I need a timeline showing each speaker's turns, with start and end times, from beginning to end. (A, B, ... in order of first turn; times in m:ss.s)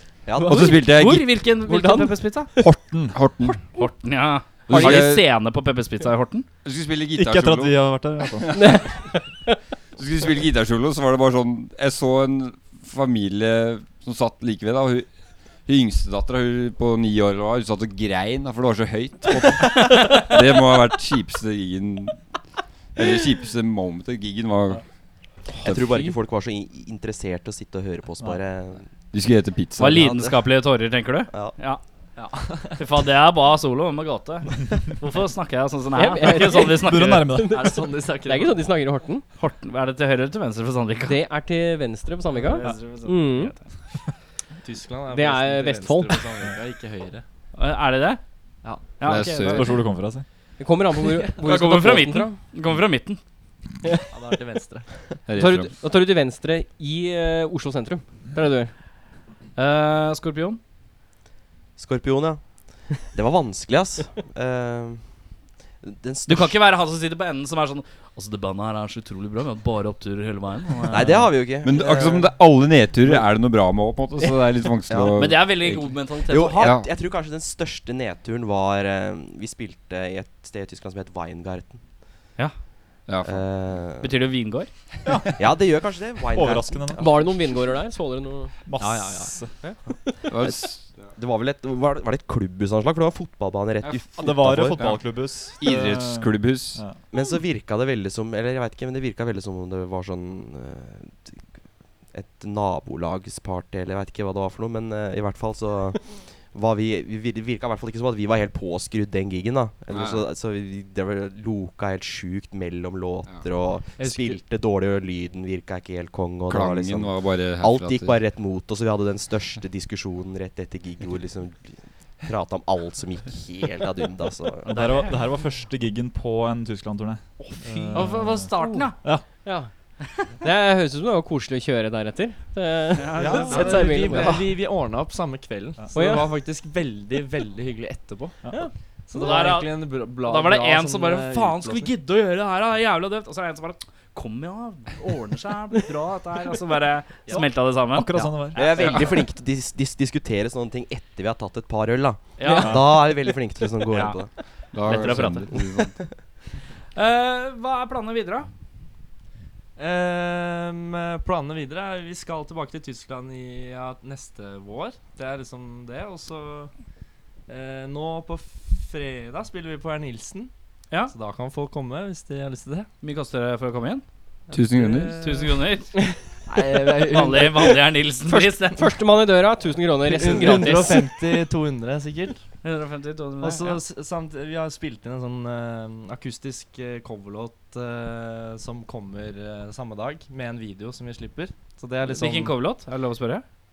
0:00.2-0:00.8 A
0:00.4-0:02.5 B
0:00.4-0:01.3 C
0:01.6-0:02.2 D
0:02.6-0:03.2 E
0:03.1-0:03.6 C
0:03.7-0:06.4 B
0:04.7-0:05.3 C
0:06.6-0:08.7 C
0:07.1-0:08.8 E
0:08.5-0:09.5 D
0:10.0-0:15.1 C
0:15.6-0:22.2 C
0:23.0-0:24.8 C
0:25.6-0:28.9 A
0:25.8-0:26.1 D
0:29.1-0:30.1 C
0:29.8-0:31.8 B
0:29.9-0:30.4 A
0:31.3-0:31.6 A
0:32.2-0:32.9 F
0:32.8-0:37.3 B
0:35.9-0:39.2 D
0:36.6-0:37.7 E
0:37.5-0:38.7 F
0:39.4-0:41.2 B
0:41.0-0:43.5 D
0:42.4-0:43.7 B
0:42.5-0:42.7 F
0:44.6-0:47.2 F
0:45.1-0:46.4 D
0:47.5-0:48.2 B
0:48.6-0:49.0 F
0:49.0-0:49.8 B
0:49.0-0:49.8 C
0:49.5-0:50.2 E
0:50.6-0:52.4 D
0:51.4-0:53.2 B
0:54.1-0:54.9 F
0:55.2-0:55.7 C
0:55.3-0:58.7 D
0:59.6-1:00.6 B
1:01.8-1:05.0 A
1:05.8-1:06.6 A
1:06.3-1:11.3 B
1:10.9-1:12.3 A
1:11.6-1:16.9 C
1:14.9-1:15.5 A
1:15.2-1:16.7 B
1:16.2-1:21.8 A
1:23.0-1:23.7 C
1:23.2-1:24.2 A
1:24.0-1:24.7 B
1:25.0-1:25.7 E
1:25.4-1:27.2 A
1:26.3-1:27.4 E
1:27.0-1:28.6 D
1:28.6-1:29.6 E
1:28.8-1:29.3 F
1:30.3-1:31.1 C
1:30.4-1:35.0 A
1:33.8-1:35.0 C
1:34.2-1:37.0 E
1:35.6-1:36.8 C
1:37.1-1:41.4 A
1:42.1-2:04.7 A
1:49.9-1:50.2 C
1:54.0-1:54.4 F
1:56.5-1:58.2 C
2:04.6-2:09.2 E
2:04.7-2:05.1 B
2:07.4-2:09.0 B
2:08.0-2:09.7 D
2:10.4-2:14.5 D
2:13.0-2:14.2 B
2:13.2-2:14.1 E
2:13.3-2:21.9 F
2:15.8-2:16.1 E
2:15.9-2:16.3 D
2:19.1-2:29.1 B
2:27.8-2:28.6 E
2:28.5-2:34.3 A
2:32.4-2:32.9 B
2:32.4-2:32.8 D
2:32.6-2:32.9 E
2:33.9-2:34.2 B
2:34.7-2:35.9 C
2:34.8-2:35.7 B
2:36.9-2:38.5 B
2:39.8-2:46.7 F
2:47.5-2:50.5 F
2:51.1-2:52.9 F
2:53.0-2:54.0 B
2:54.5-2:55.2 C
2:54.5-2:55.5 F
2:55.1-2:55.9 B
2:56.5-2:57.3 F
2:56.5-2:57.8 D
2:57.0-2:58.8 B
2:58.3-3:01.1 D
3:00.0-3:02.4 F
3:02.6-3:03.8 B
3:03.4-3:12.6 F
3:12.1-3:13.4 B